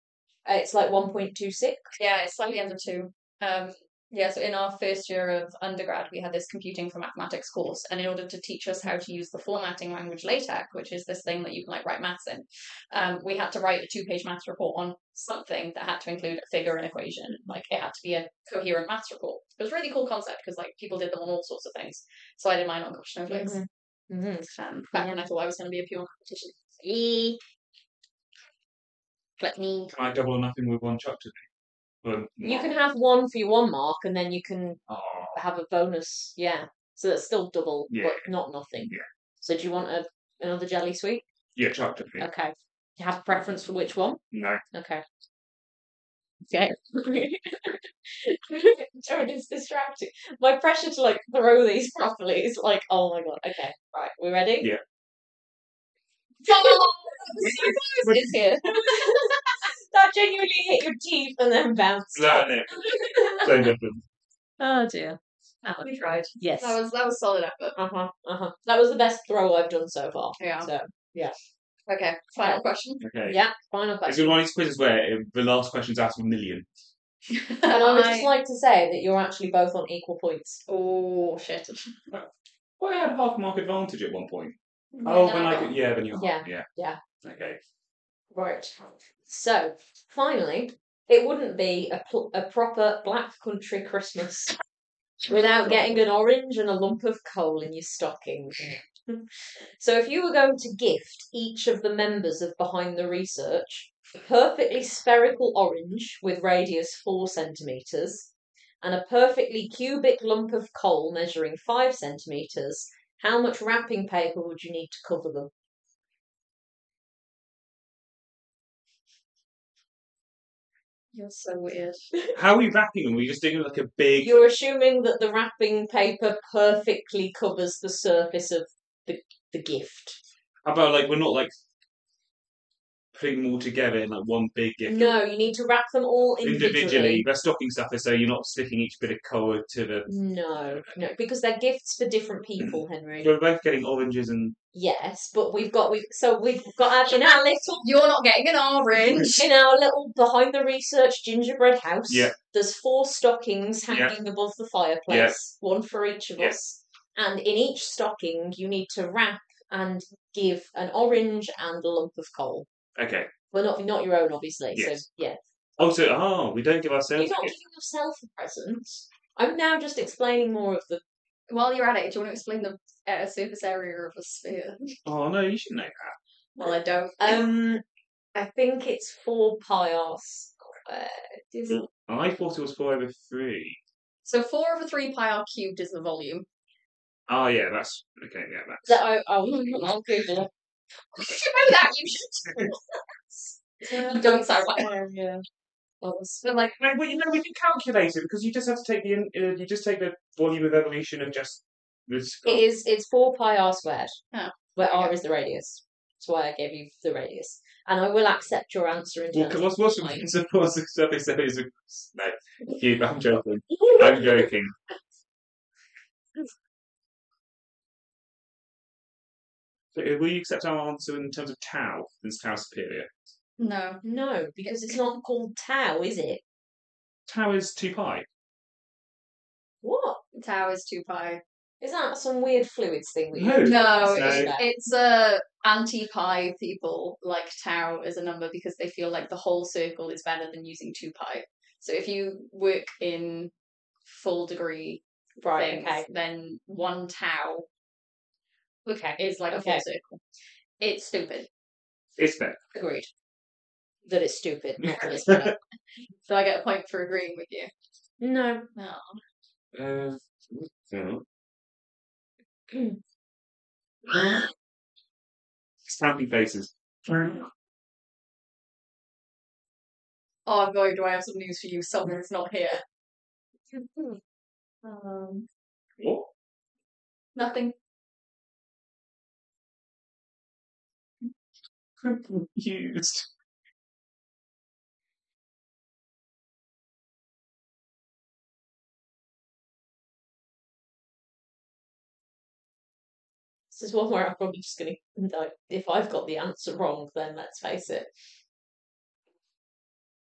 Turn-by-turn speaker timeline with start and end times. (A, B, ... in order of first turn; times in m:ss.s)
0:00.4-0:01.9 A
0:02.0-0:23.6 B
0:23.3-0:25.2 A
0:24.4-0:26.7 B
0:26.8-0:27.4 A
0:29.4-0:29.9 B
0:29.9-0:31.4 C
0:32.0-0:32.7 C
0:32.4-0:34.8 A
0:34.9-0:35.4 C
0:35.3-0:41.2 A
0:37.9-0:38.3 C
0:41.6-0:42.3 C
0:42.2-0:44.2 A
0:44.3-0:44.6 C
0:44.7-0:45.0 A
0:46.5-0:54.7 A
0:56.4-0:59.6 B
0:56.4-1:03.7 A
0:57.4-0:58.4 C
1:02.1-1:04.0 C
1:02.9-1:03.4 B
1:04.6-1:05.0 A
1:04.7-1:07.8 B
1:06.4-1:06.8 A
1:07.8-1:11.3 A
1:10.4-1:10.7 B
1:11.9-1:13.0 B
1:13.0-1:13.4 C
1:13.2-1:14.4 A
1:14.0-1:16.7 C
1:17.3-1:18.3 B
1:17.7-1:20.6 A
1:20.7-1:21.9 B
1:22.8-1:26.7 C
1:24.9-1:25.7 B
1:26.1-1:27.0 A
1:27.2-1:27.6 C
1:28.3-1:34.5 A
1:35.2-1:36.0 C
1:35.3-1:55.5 A
2:01.1-2:02.1 B
2:02.3-2:04.3 C
2:04.2-2:10.2 A
2:10.6-2:11.5 C
2:13.1-2:15.2 C
2:14.8-2:17.2 A
2:16.4-2:20.9 C
2:20.1-2:23.3 A
2:22.6-2:24.6 C
2:24.7-2:27.9 A
2:27.8-2:29.4 B
2:29.2-2:42.7 A
2:32.1-2:32.3 C
2:33.9-2:34.1 C
2:35.1-2:35.4 C
2:43.0-2:43.3 C
2:43.5-2:45.4 A
2:44.7-2:45.0 C
2:45.8-2:47.5 C
2:47.2-2:51.0 A
2:51.5-2:54.9 B
2:55.0-2:56.2 C
2:56.6-2:57.4 B
2:57.2-2:57.8 A
2:58.3-3:01.8 A
3:01.7-3:03.8 C
3:04.2-3:06.4 B
3:07.3-3:09.0 C
3:08.8-3:10.5 A
3:09.5-3:09.9 B
3:11.1-3:12.7 B
3:12.4-3:12.7 C
3:13.8-3:15.4 A
3:13.8-3:14.9 B
3:16.0-3:16.4 A
3:16.2-3:16.7 B
3:16.7-3:22.6 C
3:22.4-3:24.2 A
3:24.3-3:25.1 B
3:24.8-3:30.3 A
3:29.3-3:34.7 C
3:33.8-3:34.3 A
3:39.9-3:43.1 C
3:43.6-3:44.0 B
3:44.0-3:46.4 A
3:44.6-3:45.0 B
3:47.3-3:48.2 C
3:49.8-3:50.2 A
3:50.3-3:51.4 B
3:51.8-3:54.7 A
3:53.3-3:54.5 C
3:53.6-4:03.5 B
4:04.0-4:07.6 B
4:05.4-4:06.1 A
4:08.8-4:09.8 A
4:09.2-4:10.2 B
4:10.8-4:11.5 B
4:12.2-4:12.6 C
4:12.7-4:13.1 A
4:14.0-4:15.5 A
4:14.8-4:15.5 C
4:14.9-4:15.3 B
4:16.2-4:17.7 B
4:18.2-4:18.7 A
4:18.8-4:19.2 B
4:19.7-4:21.2 C
4:22.7-4:23.0 A
4:24.1-4:24.5 A
4:25.8-4:27.5 C
4:30.4-4:32.8 B
4:33.9-4:34.2 B
4:34.8-4:35.4 B
4:36.0-4:36.3 C
4:37.4-4:37.7 B
4:42.0-4:43.2 C
4:53.7-4:58.1 A